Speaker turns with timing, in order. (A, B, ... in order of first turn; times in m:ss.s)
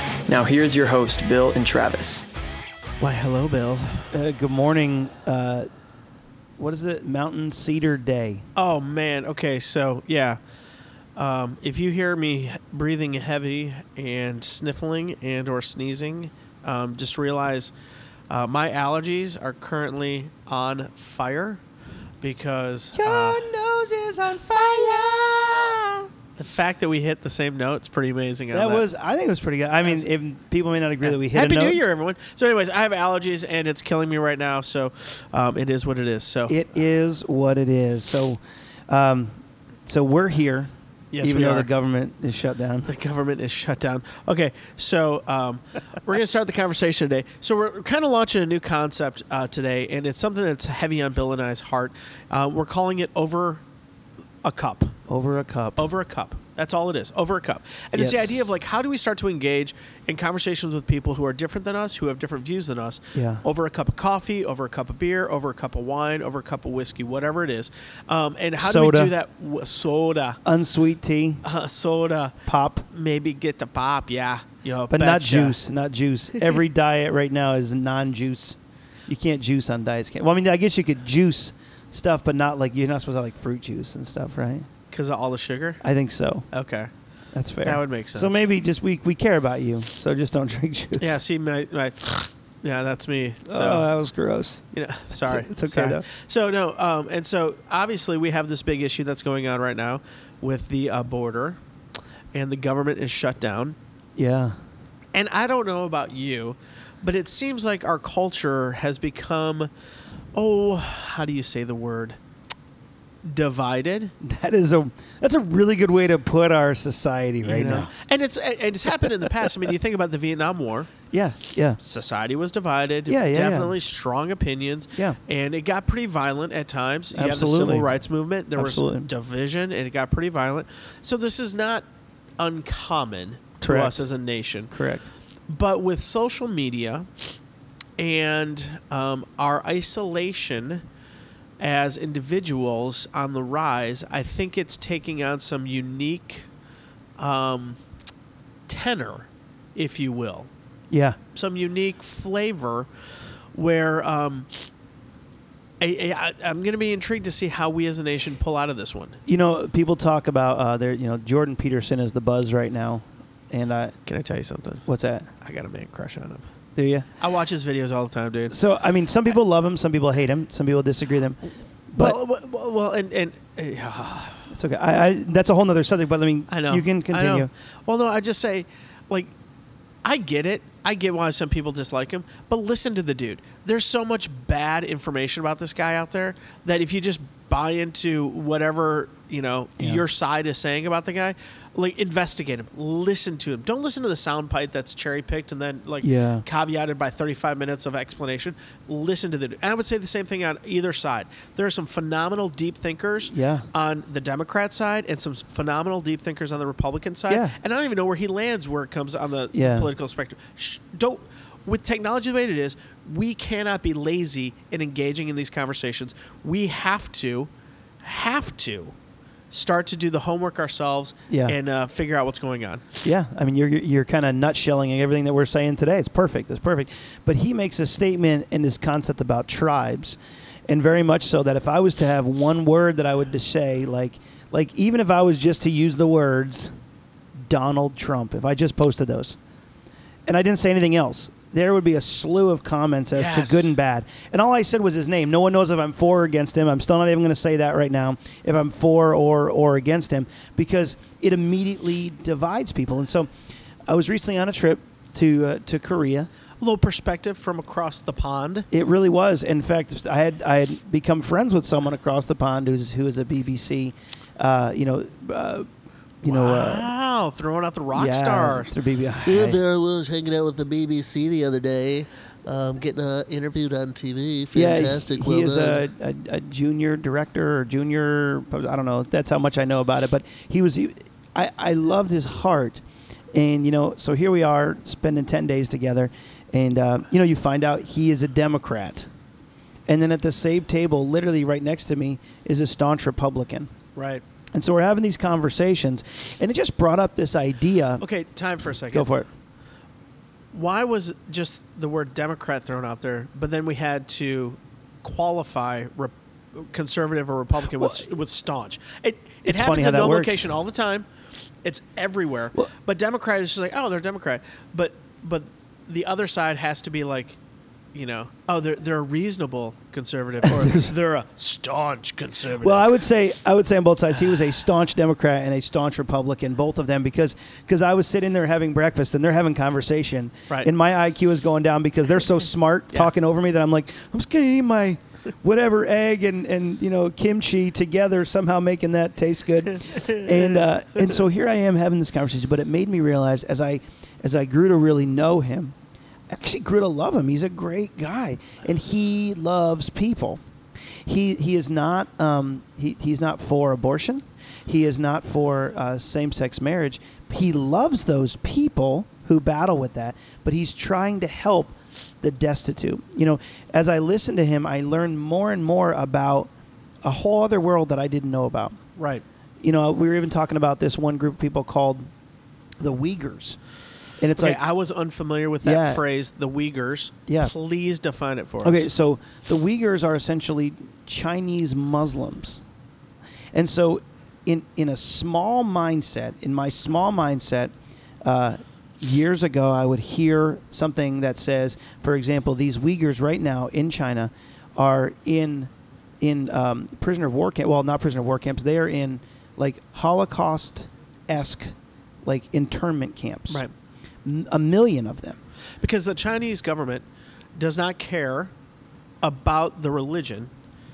0:00.3-0:02.3 A
0:03.0-0:04.1 B
0:04.1-0:05.7 C
0:06.6-0:08.5 C
0:08.6-0:10.4 B
0:11.2-0:17.7 B
0:18.3-0:21.6 B
0:22.2-0:23.5 B
0:23.0-0:26.0 C
0:26.4-0:28.9 B
0:28.5-0:31.8 C
0:31.0-0:36.6 B
0:36.5-0:40.7 C
0:41.1-0:41.7 B
0:41.2-0:42.9 C
0:42.9-0:53.6 B
0:54.4-0:55.0 B
0:55.1-0:55.9 C
0:55.8-1:10.4 B
0:58.0-0:58.4 C
1:03.2-1:03.4 C
1:08.6-1:09.1 C
1:10.4-1:11.4 C
1:11.4-1:15.6 B
1:12.4-1:12.8 C
1:14.9-1:24.7 C
1:24.9-1:25.8 B
1:25.8-1:26.5 C
1:26.5-1:26.9 B
1:27.3-1:31.2 C
1:27.6-1:28.4 B
1:31.0-1:33.9 B
1:33.5-1:36.0 C
1:34.7-1:41.6 B
1:42.3-1:43.8 B
1:44.2-1:44.6 C
1:45.1-1:49.7 B
1:50.3-1:52.2 B
1:53.2-1:54.1 B
1:54.2-1:57.9 C
1:57.4-2:00.9 B
1:59.0-1:59.5 C
2:01.1-2:01.8 C
2:01.8-2:11.8 B
2:03.1-2:03.8 C
2:07.1-2:07.9 C
2:08.6-2:09.1 C
2:12.4-2:14.7 B
2:13.6-2:14.1 C
2:14.7-2:15.1 C
2:15.5-2:17.4 B
2:18.0-2:20.8 B
2:21.6-2:26.5 B
2:27.2-2:27.8 B
2:28.7-2:30.5 B
2:30.9-2:31.2 C
2:31.3-2:34.5 B
2:35.8-2:39.2 B
2:39.3-2:44.0 C
2:44.1-2:44.9 B
2:44.9-2:45.3 C
2:45.4-2:46.5 B
2:46.8-2:47.1 C
2:47.2-2:48.6 B
2:48.5-2:52.2 C
2:52.0-2:54.5 B
2:54.5-2:57.5 C
2:56.5-2:59.3 B
3:00.0-3:37.5 B
3:16.0-3:16.5 C
3:23.3-3:23.7 C
3:27.3-3:27.6 C
3:29.5-3:29.9 C
3:38.0-3:39.0 B
3:39.5-3:42.8 B
3:41.3-3:41.6 C
3:43.0-3:56.7 C
3:57.4-3:59.4 C
4:00.3-4:13.3 C
4:03.1-4:03.7 B
4:13.9-4:16.3 C
4:16.6-4:18.7 B
4:18.7-4:25.7 C
4:26.2-4:26.9 C
4:26.3-4:28.8 B
4:27.9-4:29.6 C
4:29.2-4:35.8 D
4:34.5-4:49.1 C
4:49.9-4:53.7 C
4:54.0-4:54.2 B
4:54.5-4:58.0 C
4:58.0-4:59.1 B
4:58.9-4:59.3 C
5:00.5-5:11.1 B
5:07.8-5:08.1 C
5:09.4-5:10.5 C
5:11.6-5:17.4 B
5:17.9-5:23.0 B
5:20.4-5:20.9 C
5:22.6-5:45.8 C
5:39.7-5:41.1 B
5:46.3-5:50.4 C
5:51.0-6:06.5 C
6:07.0-6:08.8 C
6:09.0-6:09.2 B
6:09.6-6:12.1 C
6:12.8-6:13.6 C
6:14.2-6:14.6 C
6:14.4-6:18.9 B
6:15.6-6:16.0 C
6:17.3-6:17.5 C
6:18.6-6:22.6 C
6:23.5-6:43.7 C
6:44.2-6:45.4 C
6:45.8-6:47.0 B
6:47.6-6:48.5 B
6:49.2-6:50.5 B